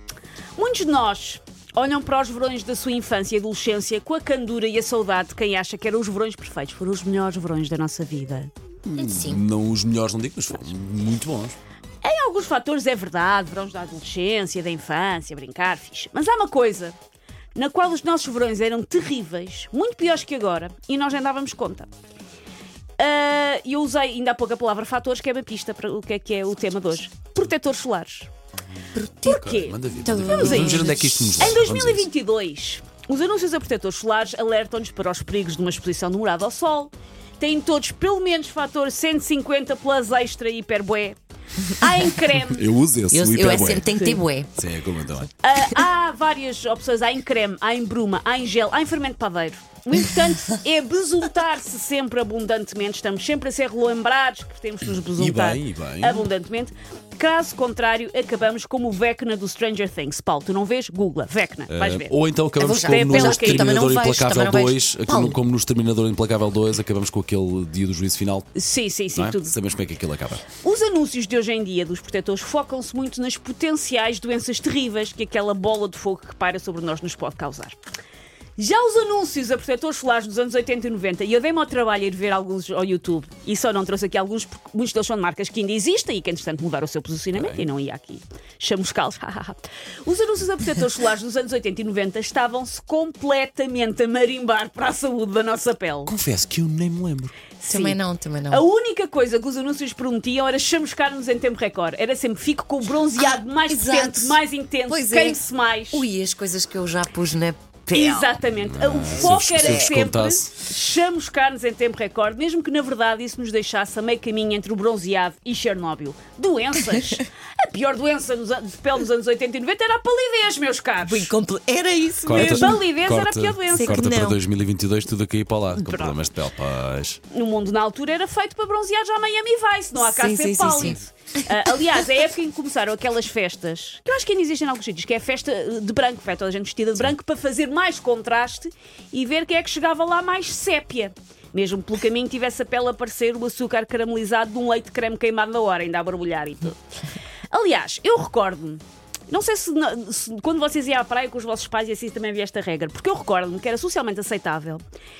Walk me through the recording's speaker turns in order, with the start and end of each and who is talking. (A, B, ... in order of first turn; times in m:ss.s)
0:00.6-0:08.5 A
0:08.9-0:11.6 B
0:09.0-0:09.4 C
0:12.0-0:17.0 A
0:17.5-0:21.9 A
0:23.0-0:28.3 A
0:28.9-0:29.4 C
0:29.2-0:32.0 B
0:29.2-0:42.6 A
0:30.0-0:31.6 C
0:42.5-0:43.9 B
0:43.1-0:44.5 C
0:43.9-0:44.2 A
0:44.6-0:45.3 B
0:45.4-1:02.2 A
0:54.9-0:56.2 B
1:01.7-1:08.5 B
1:02.6-1:05.4 C
1:02.8-1:03.8 A
1:08.5-1:09.5 A
1:09.1-1:10.4 B
1:10.6-1:17.8 A
1:18.6-1:36.1 A
1:27.3-1:27.6 B
1:36.0-1:37.3 B
1:37.6-1:46.0 A
1:37.7-1:38.6 C
1:43.7-1:48.3 C
1:47.9-2:01.3 A
1:48.6-1:50.6 B
1:49.1-1:49.9 C
2:01.0-2:02.8 C
2:02.2-2:07.2 B
2:02.3-2:04.1 A
2:03.7-2:04.4 C
2:05.7-2:06.2 A
2:07.3-2:26.8 A
2:10.0-2:11.6 C
2:27.5-2:34.8 A